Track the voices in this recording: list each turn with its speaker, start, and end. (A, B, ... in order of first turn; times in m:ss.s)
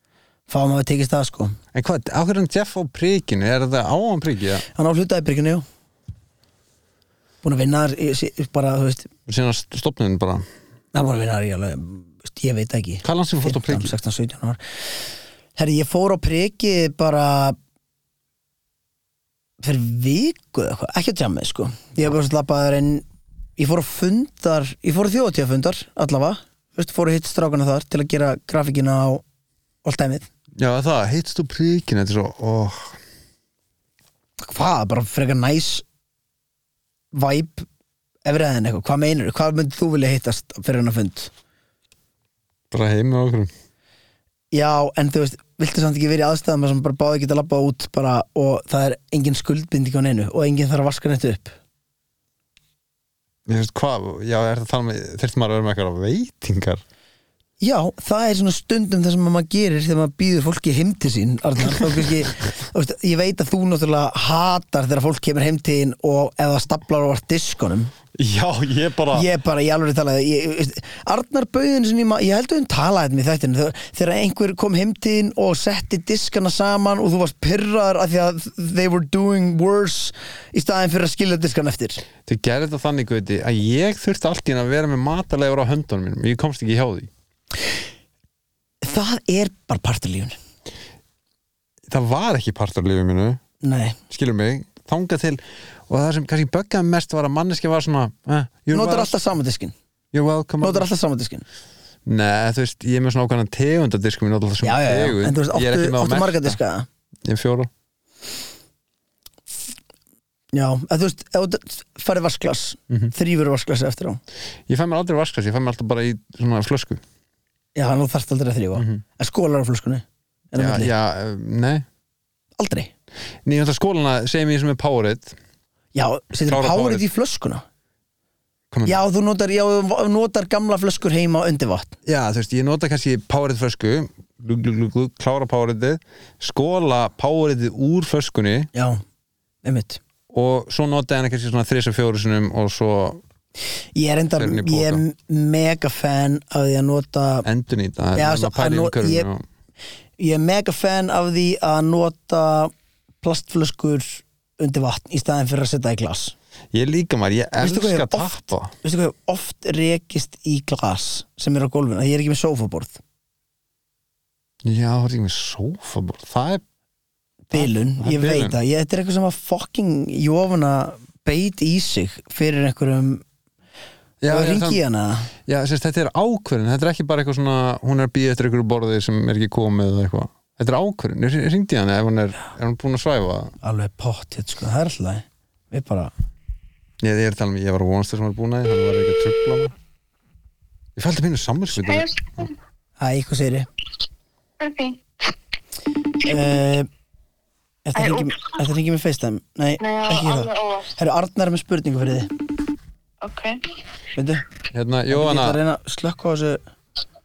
0:00.5-0:01.6 A
0:01.7-0:04.6 B
0:04.7-0:05.6 A
0:07.4-0:09.1 A
0:09.3-0:10.4 B
0:10.9-0:14.6 A
0:13.0-0:13.9 B
0:15.6-0:17.6 A
0:19.6-0:23.0 A
0:23.6-0:29.2 A
0:29.8-0:30.2 A
0:30.6-0:33.0 B
0:34.4-0:35.8 A
0:37.1-0:37.7 A
0:38.2-0:41.3 A
0:42.7-0:43.5 B
0:44.5-0:51.5 A
0:53.5-0:56.8 B
0:57.6-1:07.9 A
1:01.7-1:02.0 B
1:08.2-1:09.3 B
1:09.1-1:22.0 A
1:22.2-1:27.1 B
1:28.8-1:30.4 A
1:31.9-1:33.4 B
1:33.6-1:34.0 A
1:34.1-1:39.2 B
1:38.7-1:39.7 A
1:40.1-1:40.9 B
1:40.6-1:41.4 A
1:42.0-1:46.6 B
1:44.6-1:46.9 A
1:47.2-1:47.7 B
1:50.5-1:54.2 A
1:54.7-1:57.0 B
1:57.7-2:00.9 A
1:58.8-1:59.0 B
2:00.6-2:01.8 B
2:02.6-2:02.9 A
2:03.4-2:05.4 B
2:05.9-2:07.6 A
2:06.4-2:07.0 B
2:08.7-2:09.0 B
2:08.8-2:12.0 A
2:12.0-2:18.7 B
2:18.7-2:19.0 A
2:19.6-2:20.0 A
2:20.3-2:23.2 B
2:23.9-2:27.4 A
2:24.4-2:25.0 B
2:27.4-2:29.4 B
2:28.1-2:29.3 A
2:30.2-2:36.3 A
2:36.7-2:38.7 B
2:37.6-2:43.0 A
2:44.6-2:46.6 B
2:47.5-2:53.2 A
2:47.5-2:48.6 B
2:54.2-2:54.8 B
2:54.3-2:55.3 A
2:55.4-3:03.5 B
3:03.6-3:06.1 A
3:07.0-3:09.7 B
3:11.0-3:12.4 B
3:11.7-3:12.5 C
3:13.0-3:13.7 A
3:14.6-3:15.0 C
3:16.2-3:16.9 A
3:17.8-3:22.3 A
3:18.0-3:18.5 C
3:19.8-3:20.9 C
3:23.2-3:23.6 C
3:24.2-3:24.4 A
3:24.7-3:25.6 B
3:25.1-3:26.6 A